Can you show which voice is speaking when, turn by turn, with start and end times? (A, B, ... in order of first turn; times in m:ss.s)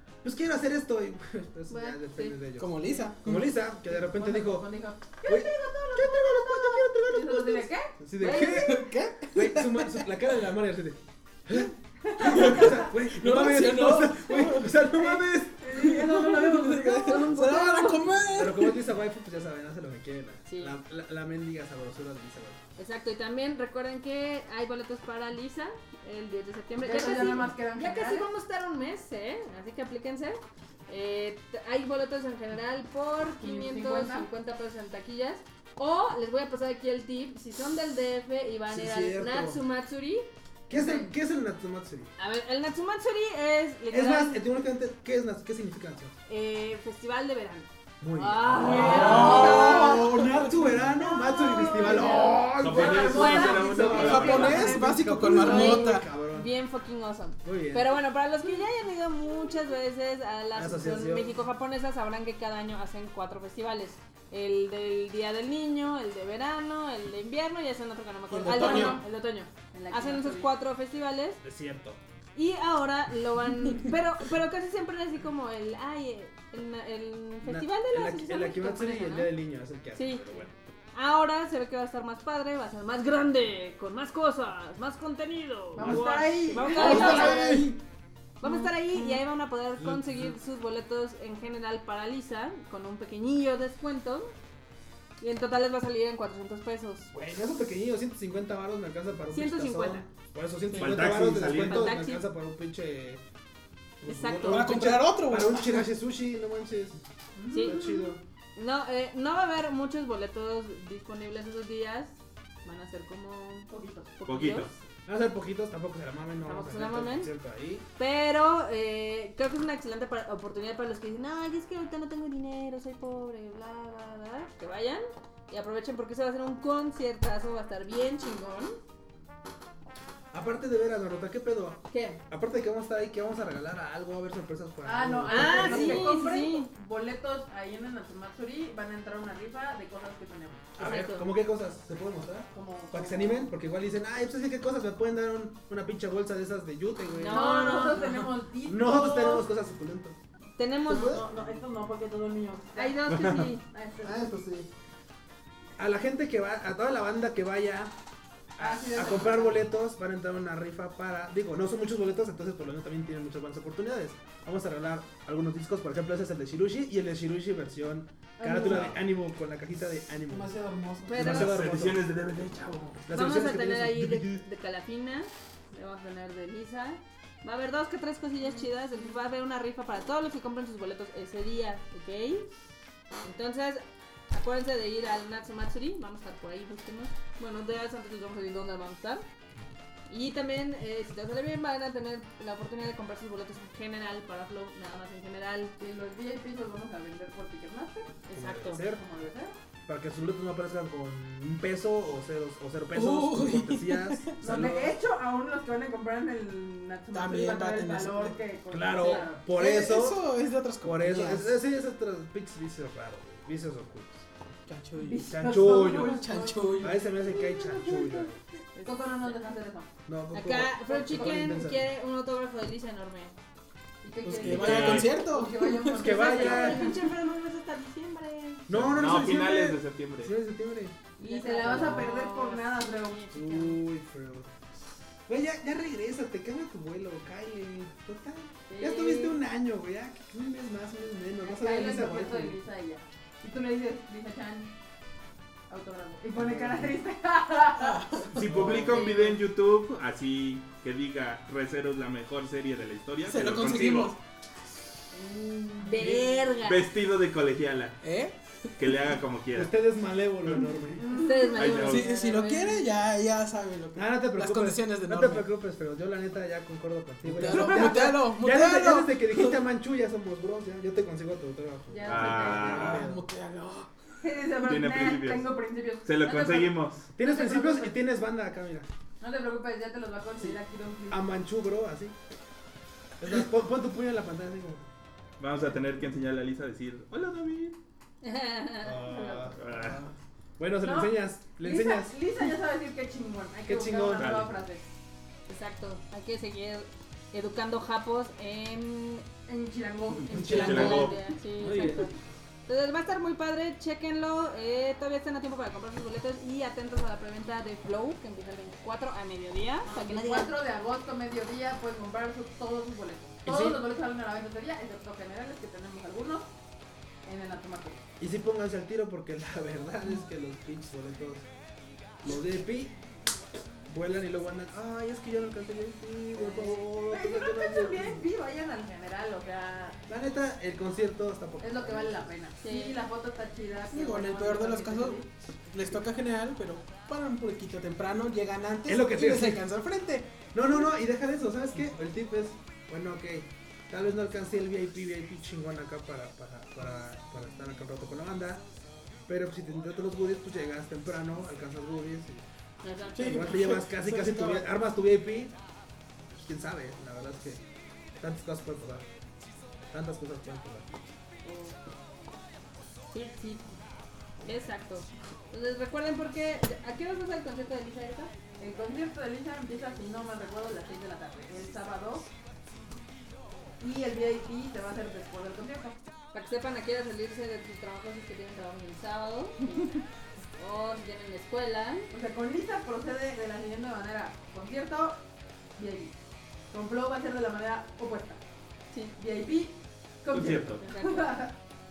0:00.2-0:04.6 A
0:01.7-0:03.0 B
0:02.6-0:03.5 C
0:03.8-0:07.9 D
0:05.2-0:15.7 A
0:08.2-0:08.8 B
0:08.5-0:10.1 C
0:12.0-0:12.9 D
0:12.2-0:14.9 C
0:15.6-0:17.4 D
0:15.7-0:18.8 C
0:17.0-0:18.4 B
0:18.3-0:22.6 A
0:20.5-0:20.8 B
0:22.8-0:41.1 B
0:26.8-0:28.3 D
0:33.4-0:34.3 D
0:38.7-0:39.6 A
0:40.7-0:42.1 A
0:42.2-0:44.4 B
0:43.9-0:46.1 A
0:46.3-1:11.4 B
0:48.0-0:56.5 A
0:48.6-0:49.9 D
0:48.7-0:50.6 C
0:51.5-0:55.0 D
0:52.6-0:54.7 E
0:53.8-0:56.1 C
0:57.4-0:57.9 A
1:00.5-1:01.3 A
1:08.3-1:09.0 C
1:08.5-1:09.0 D
1:09.7-1:10.5 D
1:11.4-1:12.0 A
1:12.3-1:19.3 B
1:17.4-1:20.5 A
1:19.9-1:20.3 B
1:20.9-1:27.7 B
1:25.7-1:27.7 D
1:25.8-1:27.6 A
1:26.7-1:27.8 C
1:28.4-1:34.3 B
1:28.4-1:29.2 D
1:29.8-1:30.3 A
1:35.2-1:37.1 B
1:37.1-1:43.2 A
1:39.3-1:40.0 B
1:40.7-1:41.1 B
1:40.7-1:41.9 E
1:41.6-1:42.2 B
1:44.0-1:47.0 A
1:44.0-1:44.9 B
1:44.4-1:45.9 C
1:47.4-1:48.1 D
1:47.5-1:54.8 B
1:47.6-1:48.2 A
1:53.7-1:54.1 D
1:54.2-1:54.7 E
1:55.0-1:57.8 A
1:56.4-1:57.3 B
1:58.0-2:08.8 B
2:10.3-2:16.2 A
2:11.9-2:12.2 B
2:14.8-2:20.7 D
2:15.3-2:16.7 B
2:20.8-2:27.8 A
2:20.8-2:21.3 B
2:22.5-2:23.5 D
2:27.1-2:28.1 B
2:27.3-2:29.5 D
2:28.6-2:30.2 A
2:30.6-2:31.2 B
2:30.9-2:31.2 A
2:30.9-2:33.0 D
2:32.8-2:33.6 B
2:33.1-2:33.5 E
2:33.6-2:34.3 D
2:34.0-2:34.7 A
2:35.8-2:37.9 A
2:38.6-2:50.5 A
2:38.6-2:39.6 D
2:48.4-2:48.9 D
2:48.6-2:49.0 E
2:50.3-2:51.3 C
2:51.0-2:51.6 B
2:51.1-2:52.0 A
2:51.1-2:53.0 E
2:53.1-2:54.4 A
2:53.1-3:02.5 B
3:03.2-3:09.2 B
3:10.1-3:15.7 B
3:15.8-3:18.2 D
3:18.2-3:18.8 B
3:18.3-3:19.0 A
3:18.8-3:19.5 D
3:19.9-3:25.0 A
3:22.9-3:24.4 C
3:24.4-3:29.4 D
3:27.1-3:28.4 C
3:28.7-3:30.2 A
3:29.0-3:29.3 B
3:29.5-3:31.6 C
3:30.8-3:34.3 A
3:34.7-3:37.1 C
3:35.0-3:38.2 D
3:35.3-3:36.2 A
3:36.8-3:38.4 A
3:38.8-3:39.4 B
3:38.8-3:39.9 D
3:40.1-3:41.8 A
3:40.3-3:43.4 B
3:41.0-3:41.4 D
3:44.0-3:47.0 D
3:44.2-3:46.2 C
3:44.4-3:45.1 E
3:46.0-3:47.0 A
3:46.0-3:48.6 B
3:48.7-3:51.0 A
3:48.7-3:50.3 E
3:51.2-3:53.3 B
3:51.2-3:53.8 D
3:51.7-3:52.0 A
3:53.3-3:54.5 A
3:55.3-4:02.6 A
3:58.7-3:59.3 B
3:58.7-3:59.3 D
4:01.4-4:04.7 D
4:05.7-4:09.4 D
4:06.4-4:06.9 A
4:07.8-4:08.6 C
4:08.3-4:14.1 E
4:08.4-4:09.0 A
4:13.2-4:14.2 C
4:15.1-4:16.9 B
4:16.6-4:18.0 E
4:18.0-4:18.4 C
4:18.8-4:19.7 E
4:19.5-4:21.1 A
4:21.0-4:21.7 D
4:21.1-4:22.8 B
4:21.5-4:22.1 E
4:21.8-4:25.4 C
4:23.9-4:33.2 A
4:27.3-4:29.6 C
4:31.9-4:33.0 D
4:32.0-4:33.0 E
4:32.6-4:33.9 C
4:34.2-4:38.0 D
4:34.6-4:37.1 E
4:37.1-4:38.9 A
4:39.2-4:41.2 D
4:41.1-4:42.1 A
4:43.2-4:44.9 A
4:45.4-4:47.8 E
4:48.2-4:49.1 B
4:48.8-4:49.9 A
4:49.0-4:49.6 D
4:49.6-4:50.0 E
4:50.6-4:52.2 A
4:50.8-4:54.8 D
4:53.6-4:54.3 A
4:54.2-4:54.5 E
4:55.5-4:59.3 B
4:59.4-5:01.3 D
5:00.3-5:02.1 A
5:00.3-5:01.2 E
5:00.4-5:02.1 B
5:02.7-5:10.5 B
5:09.8-5:16.5 D
5:13.4-5:13.8 A
5:17.2-5:18.0 D
5:18.2-5:21.4 A
5:22.2-5:22.9 A
5:23.9-5:28.2 A
5:26.4-5:30.0 D
5:30.1-5:32.2 A
5:31.6-5:35.3 D
5:32.6-5:33.0 B
5:33.9-5:40.5 C
5:38.8-5:39.6 A
5:40.5-5:48.6 A
5:49.3-5:52.4 A
5:52.8-5:53.5 B
5:53.2-5:54.7 C
5:53.2-5:55.6 A
5:56.4-5:57.6 A
5:58.2-5:59.1 A
5:59.9-6:01.1 A
6:01.4-6:01.8 D
6:03.1-6:03.8 B
6:04.4-6:08.3 B
6:08.6-6:12.3 D
6:13.8-6:16.0 D
6:16.3-6:20.0 B
6:20.6-6:22.1 B
6:22.1-6:25.2 D
6:25.8-6:26.1 D
6:26.7-6:28.4 D
6:29.2-6:31.5 D
6:30.3-6:30.8 E
6:30.8-6:31.5 B